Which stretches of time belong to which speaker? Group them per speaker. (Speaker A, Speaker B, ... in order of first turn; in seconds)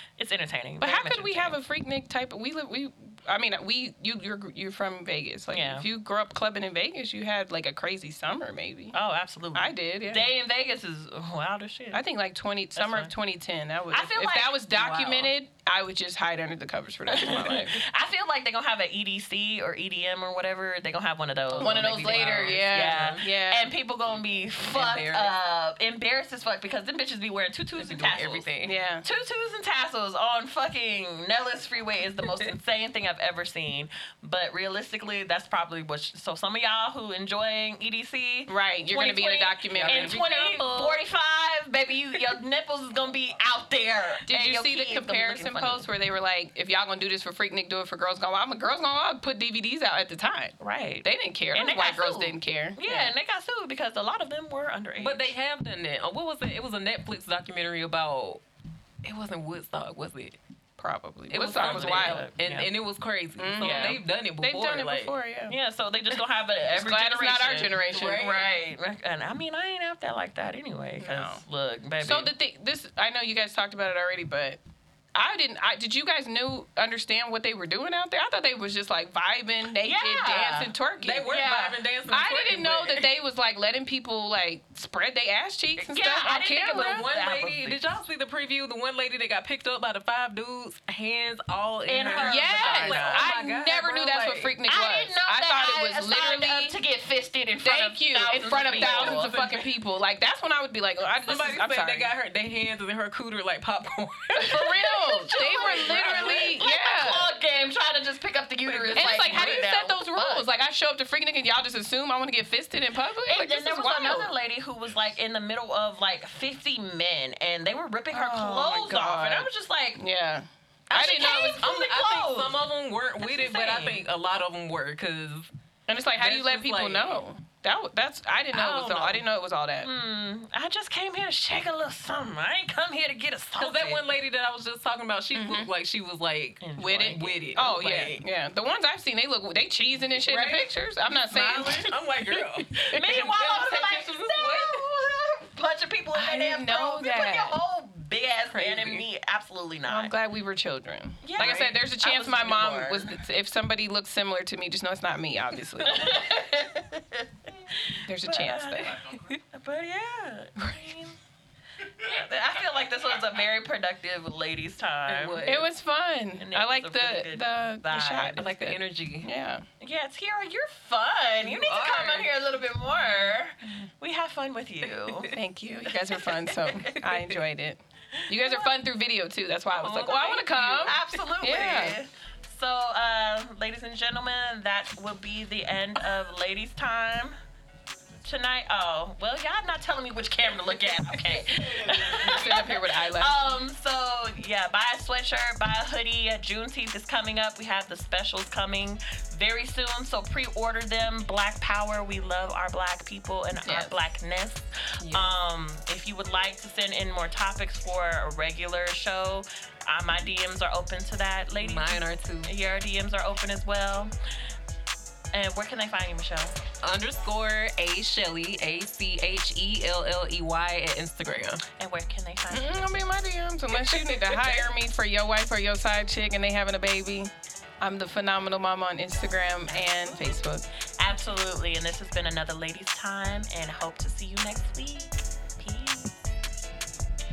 Speaker A: 0.2-1.6, 5.5-5.9, 8.9-12.0, 12.7-13.1, 13.9-15.3, 17.1-28.5, 29.0-45.9, 50.6-55.3, 61.5-62.7, 63.6-64.0, 65.5-72.3, 79.8-80.7, 81.3-81.7, 85.8-88.0, 91.8-93.3, 94.6-99.3, 104.9-110.5, 113.2-120.0, 120.9-122.6, 123.2-124.0, 128.5-129.2, 129.8-134.0, 136.6-137.6, 140.3-140.6, 142.9-150.1, 151.2-153.2, 155.8-161.2, 162.0-165.5, 166.4-168.4, 169.8-175.3, 176.1-176.9, 178.3-178.7, 180.8-187.3, 188.2-214.1, 215.3-216.6, 221.7-223.0, 229.7-230.3, 231.0-236.3
Speaker B: 0.8-8.9, 9.5-10.3, 11.9-17.8, 21.6-23.7, 28.6-29.1, 38.5-40.2, 44.3-53.1, 60.8-62.2, 63.4-65.5, 66.7-68.4, 71.0-71.4, 72.0-74.6, 75.1-87.0, 92.2-96.8, 97.6-102.1, 104.3-107.3, 108.9-114.3, 118.1-121.6, 125.9-129.9, 135.3-135.7, 136.8-143.2, 146.1-147.6, 149.9-156.2, 158.0-159.0, 165.4-169.6, 175.3-182.0, 191.9-193.4, 203.6-203.9, 222.5-230.6
Speaker C: 21.5-23.2, 24.7-25.3, 27.7-28.7, 39.7-41.0, 55.0-58.4, 59.0-60.4, 61.3-65.1, 67.9-68.4, 81.0-83.1, 86.6-94.5, 98.5-99.6, 101.2-106.5, 108.7-109.6, 120.9-125.5, 126.2-127.2, 133.6-138.2, 140.3-144.8, 148.5-149.0, 165.1-165.7, 168.4-169.3, 171.4-172.3, 179.7-181.2, 205.0-205.3, 211.6-212.5, 216.8-221.6